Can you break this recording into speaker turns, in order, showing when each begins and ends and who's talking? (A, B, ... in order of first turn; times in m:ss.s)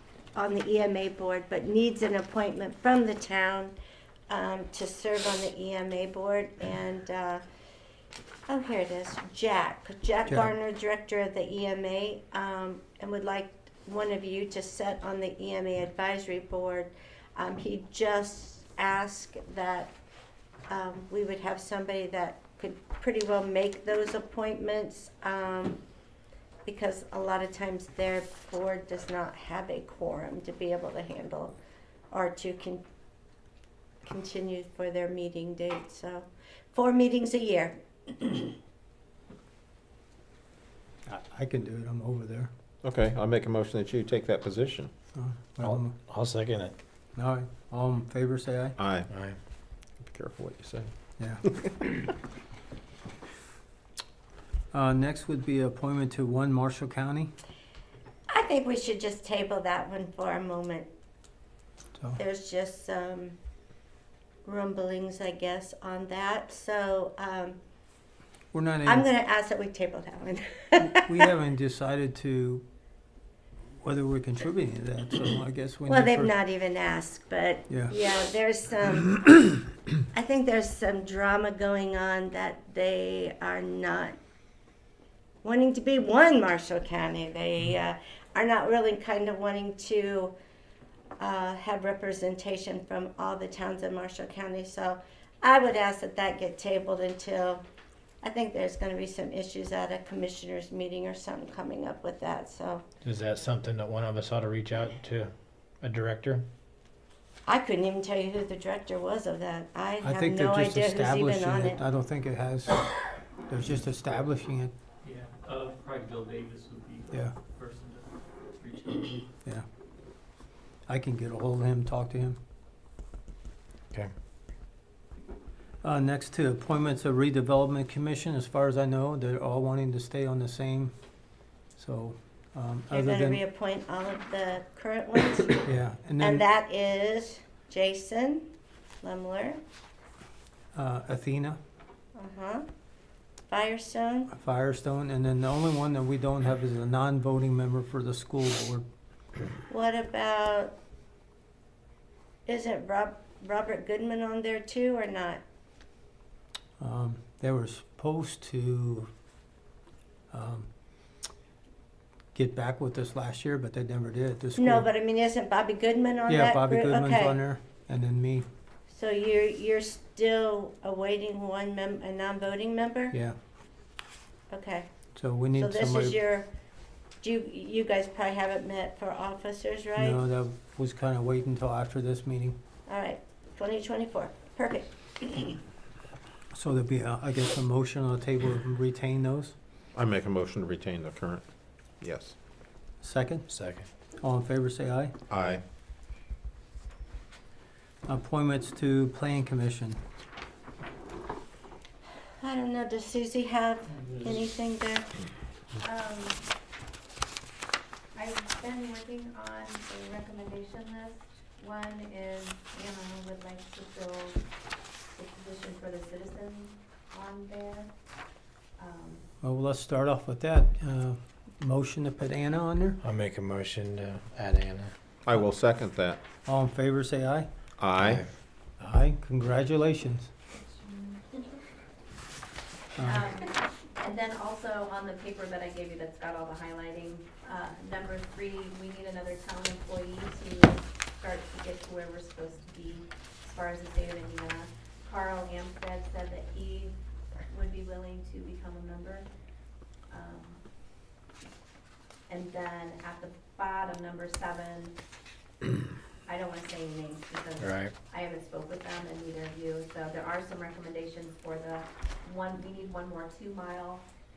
0:00.3-0:03.7 A
0:04.3-0:07.4 A
0:08.5-0:19.9 A
0:20.7-0:25.8 A
0:26.6-0:31.5 A
0:32.1-0:32.8 A
0:34.0-0:38.5 A
0:41.0-0:42.5 B
0:42.8-0:44.9 C
0:45.1-0:45.9 B
0:45.6-0:46.7 D
0:47.2-0:48.7 B
0:48.8-0:49.1 C
0:49.1-0:49.4 D
0:50.0-0:50.9 C
0:51.4-0:51.9 C
0:54.7-0:57.3 B
0:58.3-1:00.9 A
1:02.2-1:03.4 A
1:04.4-1:07.6 A
1:08.5-1:09.1 B
1:08.8-1:11.2 A
1:10.8-1:12.6 B
1:13.8-1:16.3 B
1:15.9-1:24.2 A
1:25.4-1:30.3 A
1:31.2-1:37.6 A
1:38.2-1:42.8 A
1:43.0-1:46.4 D
1:47.4-1:51.8 A
1:50.0-1:52.9 B
1:53.5-1:54.7 B
1:55.0-1:59.3 E
2:00.9-2:02.4 B
2:05.8-2:10.9 B
2:11.8-2:13.4 B
2:12.9-2:15.7 A
2:15.6-2:16.4 B
2:16.2-2:18.5 A
2:19.0-2:19.6 A
2:20.7-2:21.6 B
2:22.2-2:22.6 A
2:23.5-2:24.3 A
2:24.3-2:28.8 B
2:29.7-2:30.7 A
2:32.4-2:35.4 A
2:36.8-2:39.1 B
2:40.3-2:40.7 B
2:42.3-2:44.8 B
2:44.6-2:47.4 A
2:46.3-2:48.4 B
2:48.9-2:53.1 A
2:54.5-2:54.9 A
2:55.1-2:56.2 B
2:55.6-2:56.5 A
2:57.2-3:00.2 A
3:00.0-3:02.6 B
3:02.9-3:05.6 A
3:06.5-3:09.5 B
3:09.9-3:11.4 C
3:12.0-3:12.4 C
3:13.0-3:13.4 B
3:13.5-3:13.8 D
3:14.2-3:15.1 B
3:15.3-3:15.6 C
3:18.0-3:20.0 B
3:22.4-3:25.1 A
3:25.8-3:26.4 F
3:28.1-3:34.4 F
3:35.1-3:37.9 F
3:38.8-3:39.3 F
3:39.4-3:43.0 B
3:43.0-3:44.9 D
3:45.2-3:46.2 C
3:46.4-3:47.5 B
3:47.8-3:48.2 C
3:48.8-3:50.3 B
3:53.0-3:53.3 B
3:53.0-4:07.0 F
4:07.5-4:09.3 F
4:10.1-4:10.6 F
4:12.3-4:15.0 F
4:16.2-4:24.0 F
4:17.6-4:17.9 D